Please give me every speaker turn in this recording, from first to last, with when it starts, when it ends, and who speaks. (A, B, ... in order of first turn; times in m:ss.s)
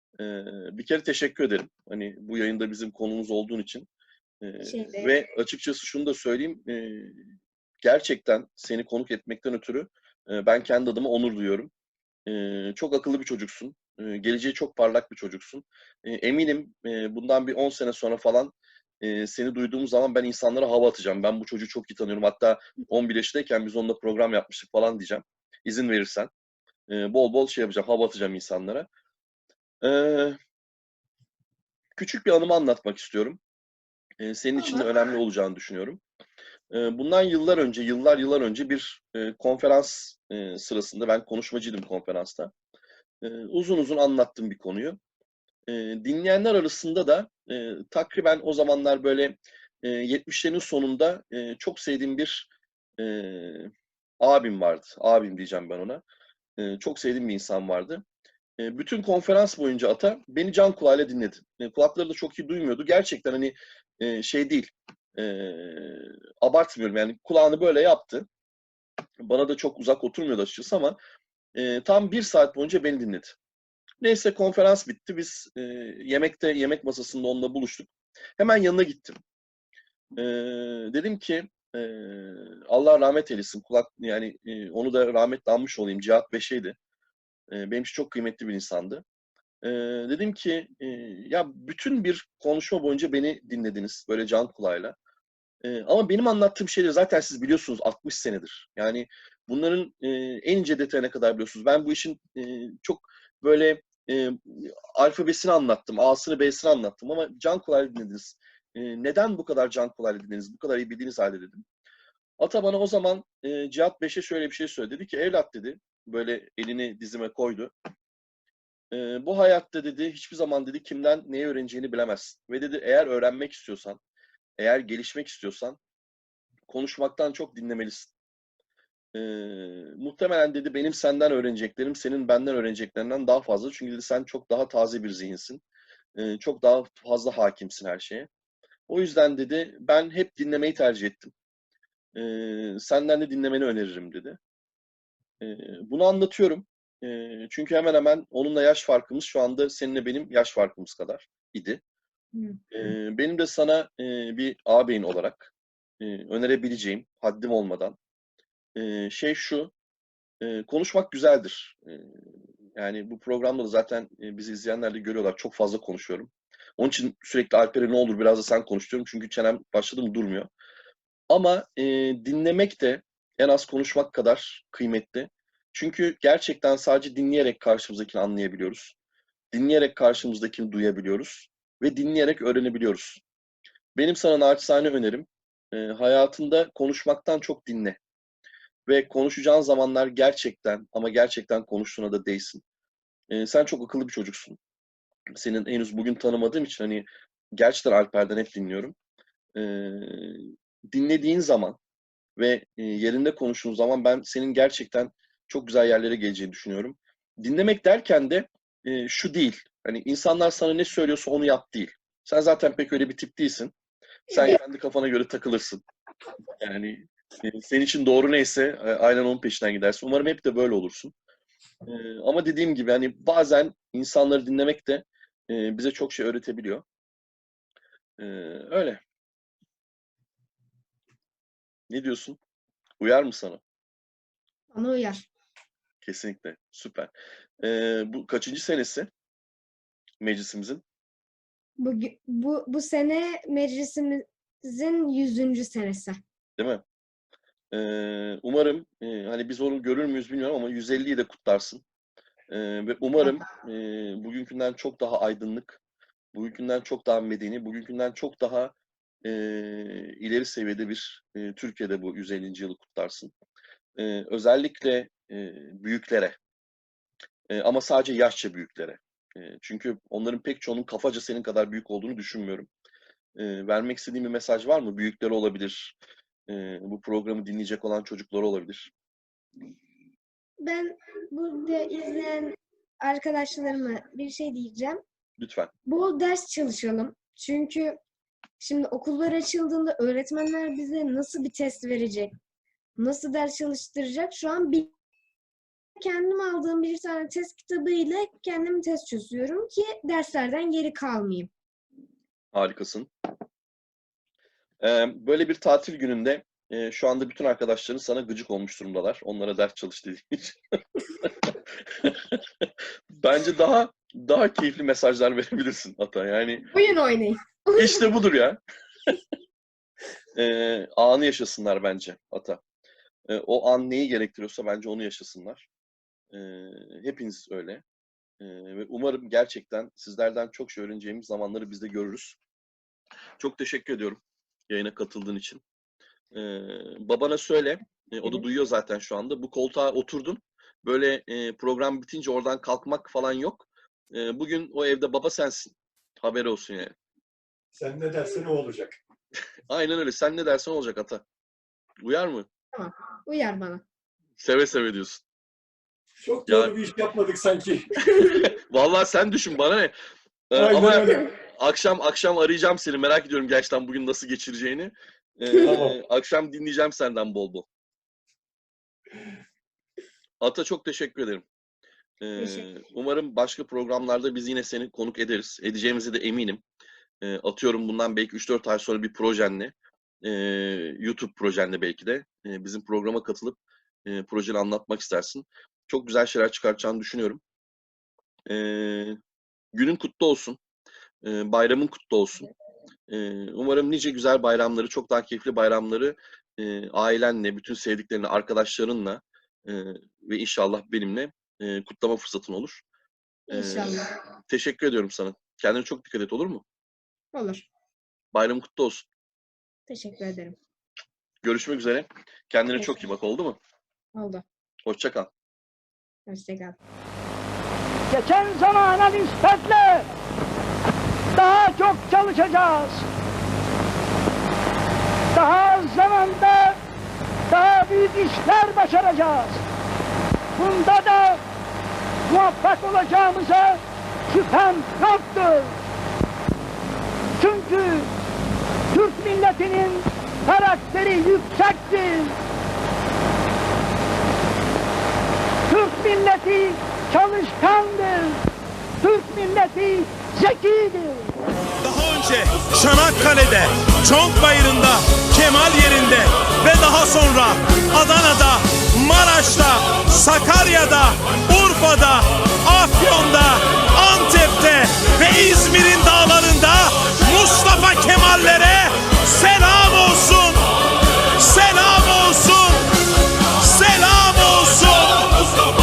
0:00.2-0:03.9 A
0:04.4-0:07.2 A
0:04.6-0:05.2 B
0:07.8-0:11.7 A
0:12.3-0:26.3 A
0:26.9-0:28.9 A
0:29.8-0:30.4 A
0:32.0-0:33.4 A
0:34.2-0:36.0 A
0:34.6-0:34.9 B
0:36.7-0:42.5 A
0:43.2-0:45.0 A
0:45.7-0:56.0 A
0:56.6-0:58.0 A
0:58.6-1:08.3 A
1:09.2-1:11.0 A
1:11.5-1:13.4 A
1:14.0-1:19.2 A
1:20.2-1:26.8 A
1:27.5-1:29.0 A
1:29.6-1:34.9 A
1:35.6-1:51.6 A
1:52.4-1:57.7 A
1:58.9-2:04.0 A
2:04.6-2:05.8 A
2:06.7-2:08.1 A
2:09.1-2:15.6 A
2:16.2-2:18.3 A
2:18.9-2:21.3 A
2:22.1-2:24.4 A
2:25.4-2:31.8 A
2:32.3-2:32.6 B
2:32.7-2:38.0 A
2:38.8-2:39.7 A
2:40.4-2:42.1 A
2:42.8-2:50.5 A
2:51.3-2:58.9 A
2:59.5-3:03.2 A
3:03.9-3:08.0 A
3:08.9-3:12.6 A
3:13.3-3:14.6 A
3:15.4-3:18.9 A
3:19.6-3:21.8 A
3:22.4-3:33.7 A
3:34.3-3:35.8 A
3:34.3-3:34.6 B
3:36.6-3:41.1 A
3:41.8-3:46.8 A
3:48.2-3:49.0 A
3:51.9-3:52.4 A
3:53.0-3:53.6 A
3:54.7-3:55.2 B
3:56.0-3:59.1 A
4:00.2-4:00.8 A
4:01.8-4:06.2 B
4:06.6-4:06.8 A
4:07.7-4:11.8 A
4:12.5-4:15.8 A
4:16.3-4:23.3 A
4:24.0-4:26.4 A
4:27.5-4:32.7 A
4:33.4-4:36.0 A
4:36.5-4:38.9 A
4:40.6-4:45.0 B
4:45.4-4:45.7 A
4:45.9-4:48.0 B
4:48.6-4:52.3 B
4:53.0-4:54.9 B
4:56.0-5:01.5 B
5:02.5-5:03.1 A
5:04.8-5:10.6 A
5:12.0-5:12.6 A
5:13.2-5:16.7 A
5:16.7-5:18.1 B
5:17.8-5:19.1 A
5:20.3-5:22.6 A
5:23.3-5:25.7 A
5:26.3-5:27.8 A
5:28.4-5:32.4 A
5:33.4-5:35.6 A
5:36.3-5:46.9 A
5:47.7-5:49.0 C
5:49.7-5:51.2 A
5:52.0-5:52.5 A
5:52.7-5:53.8 B
5:54.4-5:55.2 A
5:56.2-5:58.1 C
5:56.5-5:56.7 A
5:58.7-5:59.9 A
6:00.5-6:07.7 A
6:00.5-6:01.3 C
6:05.6-6:06.0 C
6:10.4-6:11.4 A
6:12.2-6:16.6 A
6:12.4-6:12.7 B
6:17.2-6:27.4 A
6:28.5-6:29.2 A
6:29.7-6:30.6 A
6:31.2-6:32.5 A
6:33.1-6:42.8 A
6:43.5-6:44.1 B
6:43.5-6:46.6 A
6:47.3-6:47.6 B
6:48.3-6:49.1 A
6:49.9-6:50.6 B
6:51.4-6:53.6 A
6:54.1-6:54.4 B
6:54.8-6:55.3 A
6:56.2-6:56.8 B
6:58.1-7:00.0 D
7:01.3-7:03.0 D
7:05.3-7:06.8 D
7:07.5-7:09.6 D
7:10.5-7:11.4 D
7:12.3-7:15.7 D
7:17.4-7:18.1 D
7:18.9-7:22.4 D
7:25.7-7:28.4 D
7:29.0-7:31.3 D
7:31.8-7:50.6 E
7:51.4-7:52.8 E
7:53.6-7:55.4 E